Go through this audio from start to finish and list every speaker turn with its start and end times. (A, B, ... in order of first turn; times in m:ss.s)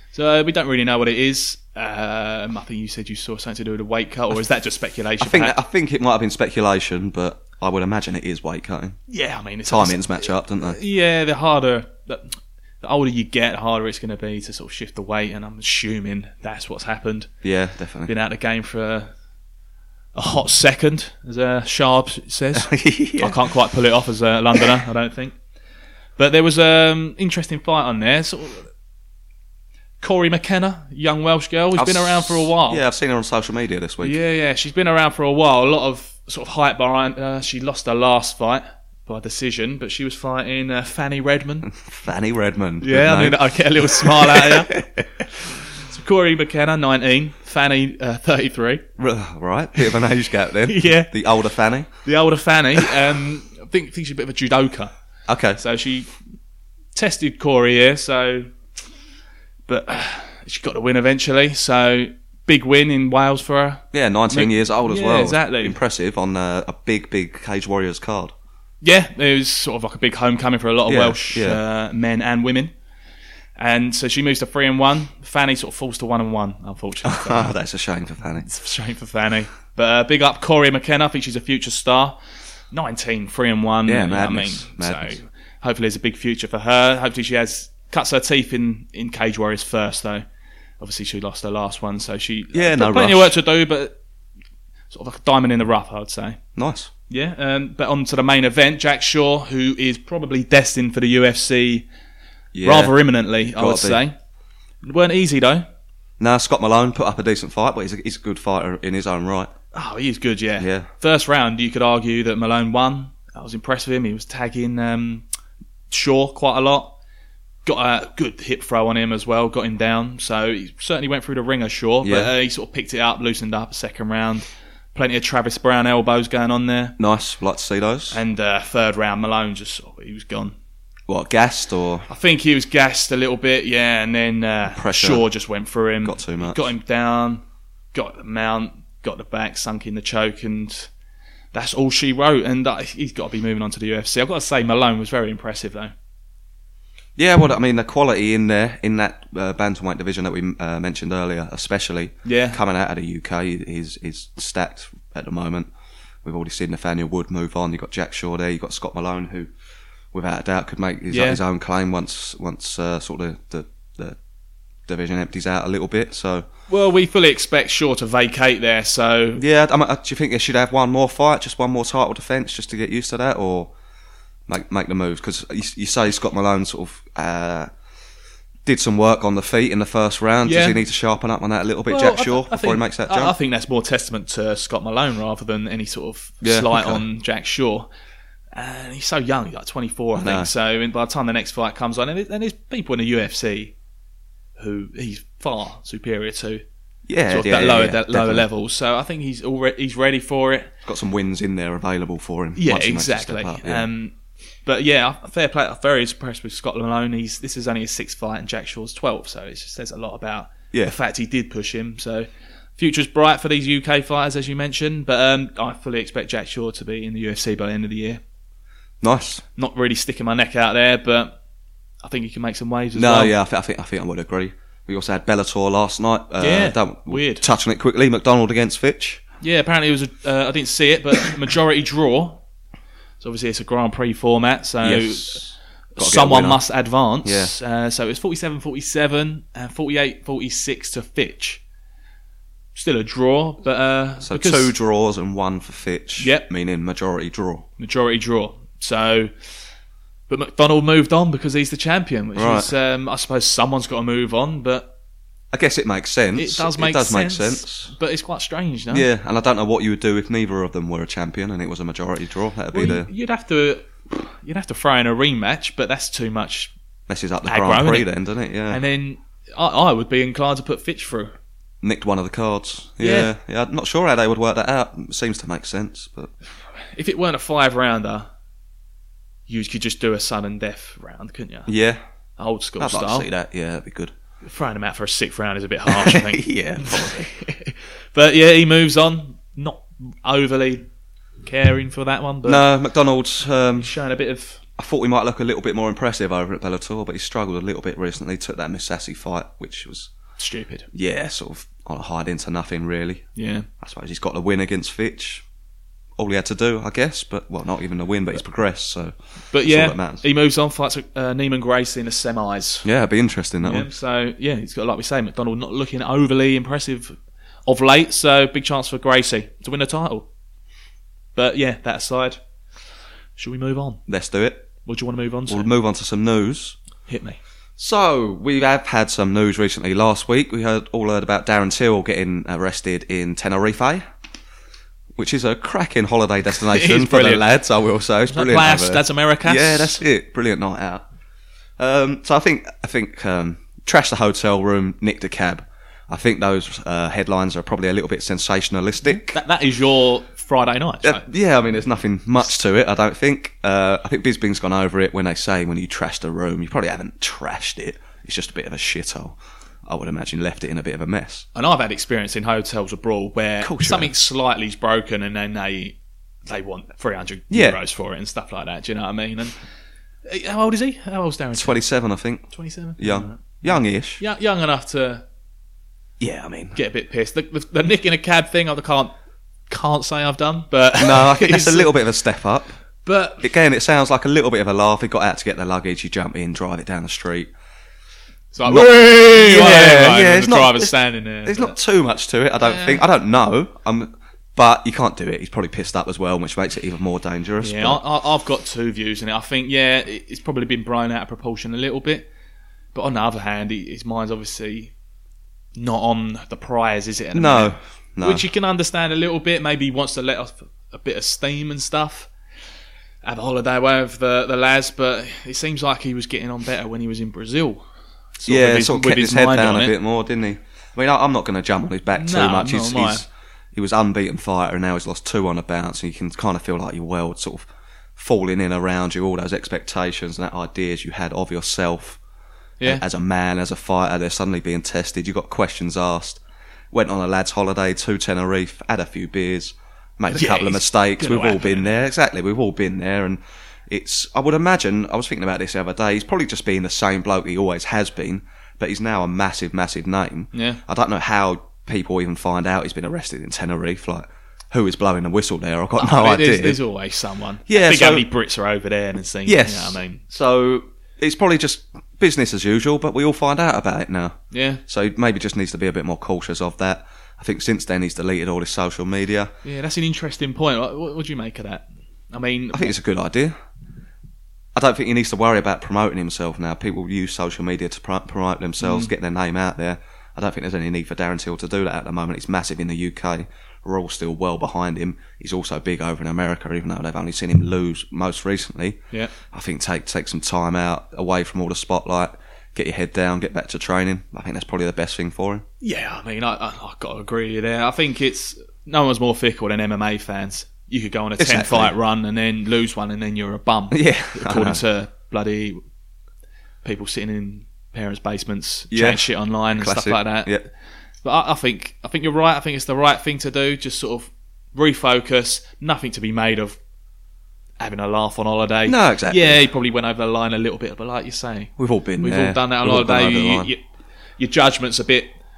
0:00.1-0:05.6 A
0:05.2-0:09.0 B
0:09.1-0:17.3 A
0:09.7-0:10.8 B
0:17.4-0:18.1 B
0:18.0-0:19.1 A
0:20.1-0:25.4 A
0:22.6-0:23.4 B
0:26.2-0:28.7 A
0:30.0-0:32.8 A
0:31.7-0:34.2 B
0:34.0-0:41.7 A
0:41.6-0:45.2 B
0:42.8-0:44.8 A
0:45.8-0:48.8 A
0:49.0-0:51.9 B
0:50.6-0:51.1 A
0:52.0-0:54.9 A
0:55.3-0:55.6 B
0:55.6-0:56.1 A
0:56.9-0:58.5 A
0:59.7-1:05.8 A
1:03.9-1:08.3 B
1:08.8-1:12.7 A
1:10.9-1:11.6 B
1:13.6-1:17.5 A
1:17.0-1:18.5 B
1:18.4-1:22.2 A
1:22.7-1:30.2 A
1:23.8-1:25.2 B
1:30.8-1:34.0 A
1:32.5-1:33.3 B
1:34.9-1:36.4 A
1:36.6-1:36.9 B
1:37.1-1:41.8 A
1:42.5-1:42.9 B
1:42.6-1:44.1 A
1:43.5-1:44.0 B
1:44.8-1:45.6 A
1:46.2-1:49.5 B
1:49.7-1:55.2 A
1:50.6-1:50.9 B
1:55.9-1:56.9 A
1:57.6-2:07.0 A
2:02.0-2:02.3 B
2:07.0-2:08.2 B
2:08.1-2:10.5 A
2:11.1-2:12.1 B
2:12.1-2:20.9 A
2:14.7-2:15.2 B
2:16.0-2:16.6 B
2:21.5-2:25.9 A
2:27.2-2:35.7 B
2:32.2-2:32.6 A
2:36.2-2:39.5 B
2:40.1-2:44.2 B
2:41.1-2:41.4 A
2:44.9-2:46.4 B
2:46.7-2:49.4 A
2:49.4-2:53.7 B
2:54.5-2:57.7 B
2:58.6-3:03.3 B
3:00.4-3:00.8 A
3:01.9-3:07.9 A
3:06.4-3:07.0 B
3:08.5-3:13.7 A
3:10.2-3:10.5 B
3:14.6-3:16.6 A
3:17.1-3:18.4 B
3:17.3-3:20.7 A
3:20.8-3:23.8 B
3:22.6-3:38.2 A
3:39.0-3:39.4 B
3:39.6-3:41.4 A
3:42.0-3:43.3 A
3:42.9-3:49.2 B
3:46.4-3:47.4 A
3:49.4-3:52.4 A
3:53.2-3:55.4 A
3:54.8-3:56.6 B
3:56.0-4:01.6 A
3:57.2-3:57.5 B
4:02.7-4:04.7 A
4:04.2-4:07.6 B
4:06.2-4:06.5 A
4:07.8-4:09.3 A
4:10.3-4:14.9 A
4:12.4-4:12.7 B
4:15.5-4:17.9 B
4:16.3-4:19.1 A
4:18.9-4:23.1 B
4:22.7-4:26.7 A
4:27.1-4:28.8 B
4:27.4-4:28.1 A
4:28.7-4:31.3 A
4:31.8-4:36.3 B
4:33.0-4:33.3 A
4:36.8-4:38.3 A
4:39.5-4:41.7 A
4:41.7-4:42.0 B
4:42.4-4:43.3 A
4:42.8-4:44.1 B
4:44.4-4:50.9 A
4:45.9-4:47.3 B
4:51.4-4:52.7 A
4:52.4-4:53.9 B
4:53.8-4:54.6 A
4:54.8-5:00.1 B
5:00.4-5:00.9 A
5:00.9-5:03.2 B
5:03.4-5:03.7 A
5:03.8-5:05.4 B
5:06.2-5:10.2 B
5:09.5-5:12.9 A
5:12.8-5:13.9 B
5:13.6-5:20.3 A
5:21.3-5:22.4 A
5:23.4-5:24.0 A
5:24.1-5:24.7 B
5:24.8-5:25.7 A
5:25.5-5:26.8 B
5:27.1-5:27.4 A
5:27.8-5:34.0 B
5:35.2-5:41.0 B
5:36.7-5:37.4 A
5:38.3-5:40.0 A
5:41.8-5:49.4 B
5:49.1-5:51.2 A
5:51.0-6:01.4 B
6:01.5-6:09.6 A
6:03.6-6:04.1 B
6:07.5-6:07.8 B
6:10.2-6:11.8 A
6:11.5-6:12.4 B
6:12.5-6:15.2 A
6:13.0-6:14.2 B
6:16.2-6:16.8 B
6:16.7-6:19.1 A
6:19.7-6:21.9 A
6:21.0-6:22.7 B
6:23.0-6:23.5 A
6:23.4-6:27.5 B
6:28.5-6:31.8 A
6:28.6-6:30.9 B
6:31.4-6:38.0 B
6:32.6-6:33.0 A
6:37.6-6:42.3 A
6:42.9-6:44.9 A
6:45.7-6:52.3 A
6:47.3-6:48.4 B
6:53.2-6:57.8 A
6:58.4-6:59.9 A
6:58.5-7:12.2 B
7:02.1-7:03.2 A
7:12.8-7:16.4 B
7:16.9-7:36.8 B
7:20.3-7:21.9 A
7:30.5-7:30.8 A
7:36.0-7:40.2 A
7:37.7-7:38.2 B
7:39.4-7:49.5 B
7:44.5-7:44.8 A
7:49.6-7:52.9 A
7:52.7-7:53.5 B
7:54.7-8:09.0 B
7:58.8-7:59.1 A
8:09.5-8:15.6 B
8:15.8-8:25.8 A
8:21.4-8:21.9 B
8:23.9-8:24.8 B
8:26.8-8:30.5 A
8:28.9-8:30.6 B
8:31.2-8:36.8 A
8:37.8-8:43.8 A
8:38.8-8:39.6 B
8:41.8-8:43.7 B
8:44.4-8:45.3 A